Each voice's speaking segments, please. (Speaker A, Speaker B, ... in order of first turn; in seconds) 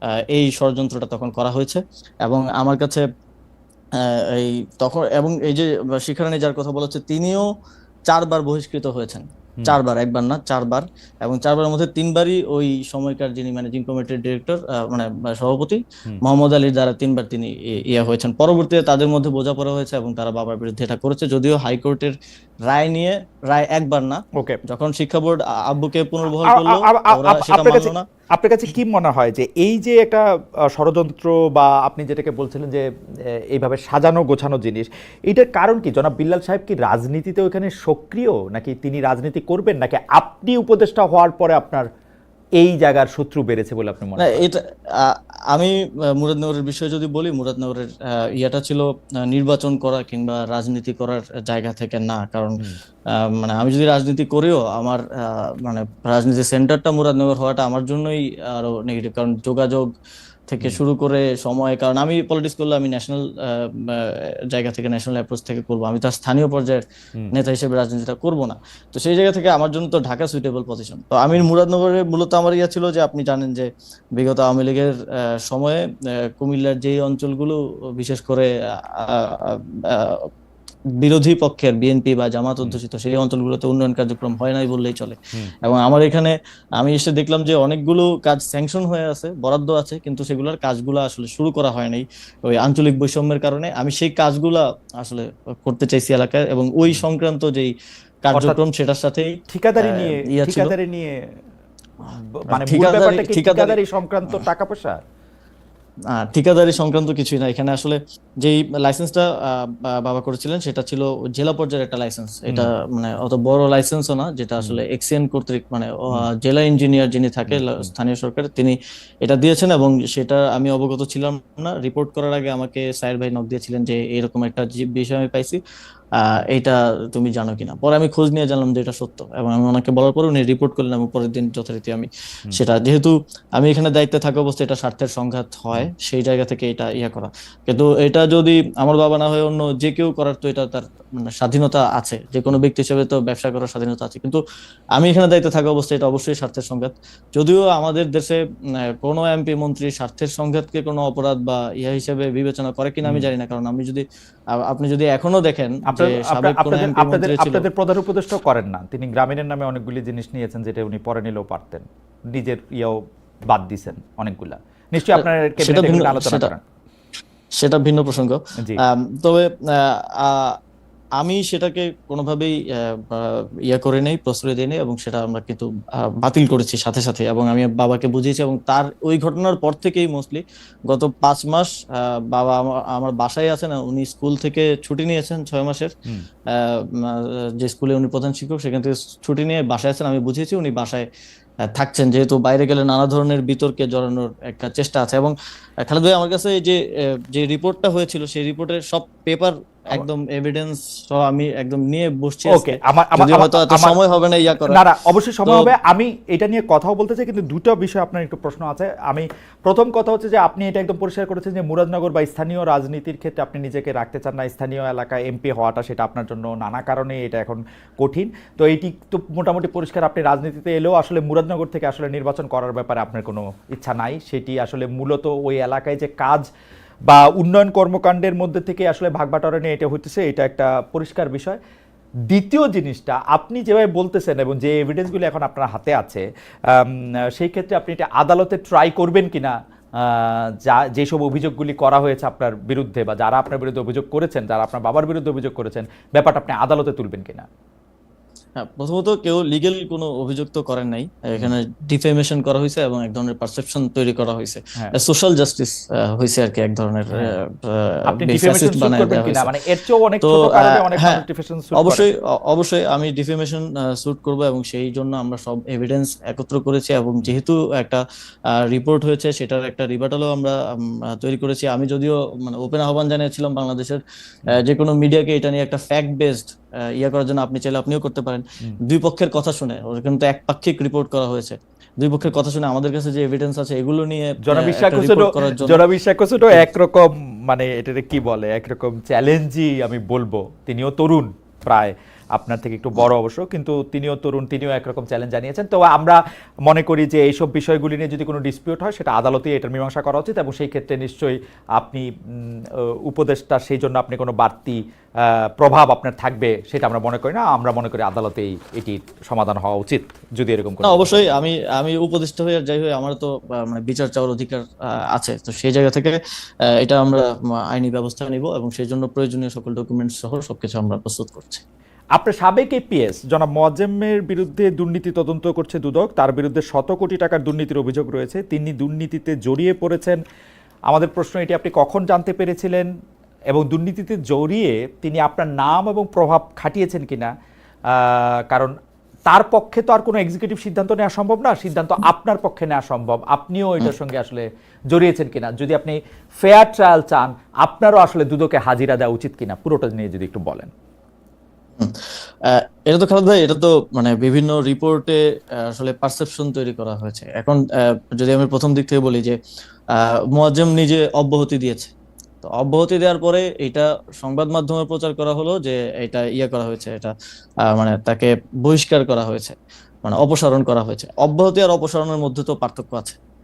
Speaker A: 0.3-3.0, 4.0-7.5, 8.1-22.2, 22.7-28.1, 44.2-59.9, 60.5-80.3, 81.0-97.7, 98.2-100.7, 102.5-103.8, 106.1-125.6, 126.2-144.4, 145.0-157.7, 165.2-166.5, 167.6-170.6, 171.2-185.9, 186.5-191.1, 191.7-204.8, 205.4-205.7, 248.6-259.6, 260.2-285.8, 310.8-316.2, 316.8-321.6, 351.8-359.4, 359.9-367.1, 367.7-373.2
Speaker B: 26.3-32.9, 33.5-41.9, 42.6-44.4, 98.3-98.6, 99.5-101.1, 102.1-105.0, 117.5-117.9, 153.0-153.3, 155.9-166.6, 202.5-204.0, 204.7-226.5, 227.1-231.6, 232.3-247.5, 258.1-262.1, 284.4-302.5, 303.1-311.2, 322.2-330.2, 330.9-332.9, 333.5-337.3, 337.9-338.8, 339.3-350.7